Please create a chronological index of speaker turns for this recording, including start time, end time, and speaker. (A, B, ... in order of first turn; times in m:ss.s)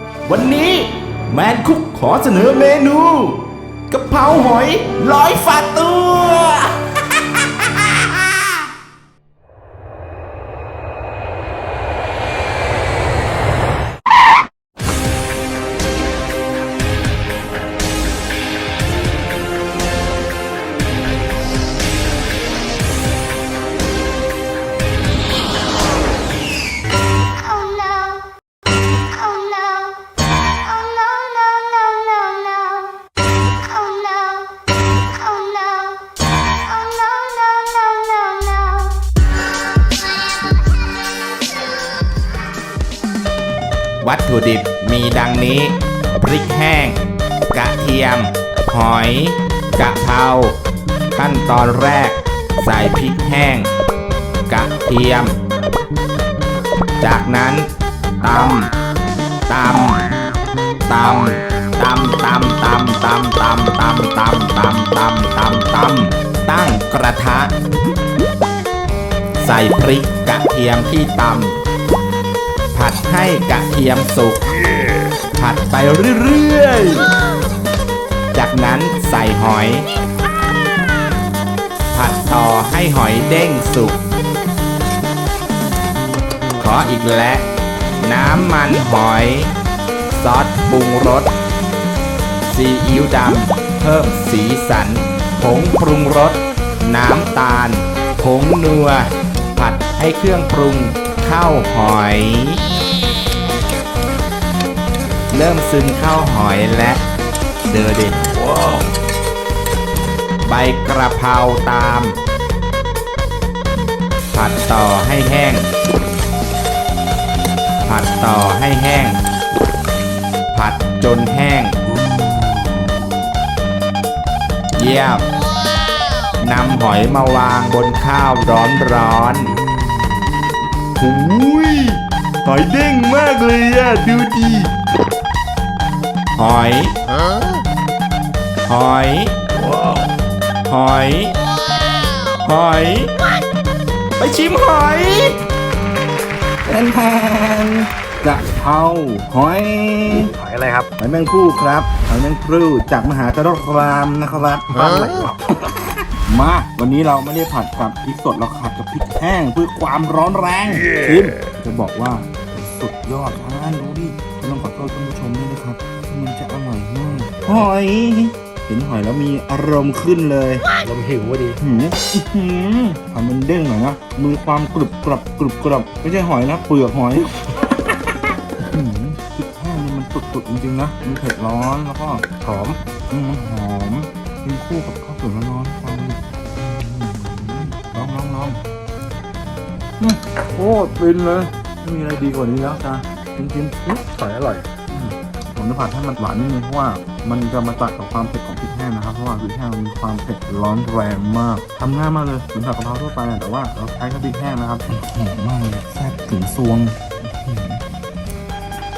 0:00.2-0:06.9 A
0:27.7-0:28.1 B
0:29.3-0:29.8 B
0:31.7-0:32.8 B
0:33.9-0:34.4 B
0:35.3-0:35.9 B
0:36.8-0:38.9 B
0:44.0-0:47.0 A
0:47.5-0:50.5 A
0:51.1-0:53.7 A
0:54.5-0:55.3 A
0:57.0-0:57.7 A
0:58.2-0:58.7 A
0:59.5-1:00.1 A
1:00.9-1:07.5 A
1:09.4-1:11.6 A
1:12.7-1:14.6 A
1:15.3-1:17.1 A
1:18.3-1:19.8 A
1:21.9-1:24.0 A
1:26.6-1:27.4 A
1:28.0-1:29.5 A
1:30.1-1:31.3 A
1:32.5-1:42.6 A
1:45.3-1:47.0 A
1:47.6-1:48.8 A
1:50.4-1:52.1 A
1:54.3-1:55.7 A
1:57.8-1:59.2 A
2:00.5-2:01.8 A
2:02.2-2:02.8 C
2:04.8-2:05.2 A
2:06.4-2:09.6 A
2:10.9-2:14.7 A
2:16.4-2:16.9 A
2:18.7-2:19.3 A
2:20.7-2:21.4 A
2:22.4-2:23.1 A
2:24.2-2:25.4 A
2:26.7-2:30.4 C
2:30.4-2:30.9 B
2:31.0-2:50.7 C
2:51.2-2:51.4 B
2:51.6-2:57.9 C
2:58.6-3:06.2 C
3:06.0-3:07.9 A
3:06.7-3:07.1 C
3:07.8-3:08.6 C
3:10.0-3:14.7 C
3:11.9-3:12.6 A
3:13.4-3:15.9 A
3:15.6-3:26.9 C
3:17.1-3:17.8 A
3:21.6-3:27.0 A
3:27.5-3:27.8 C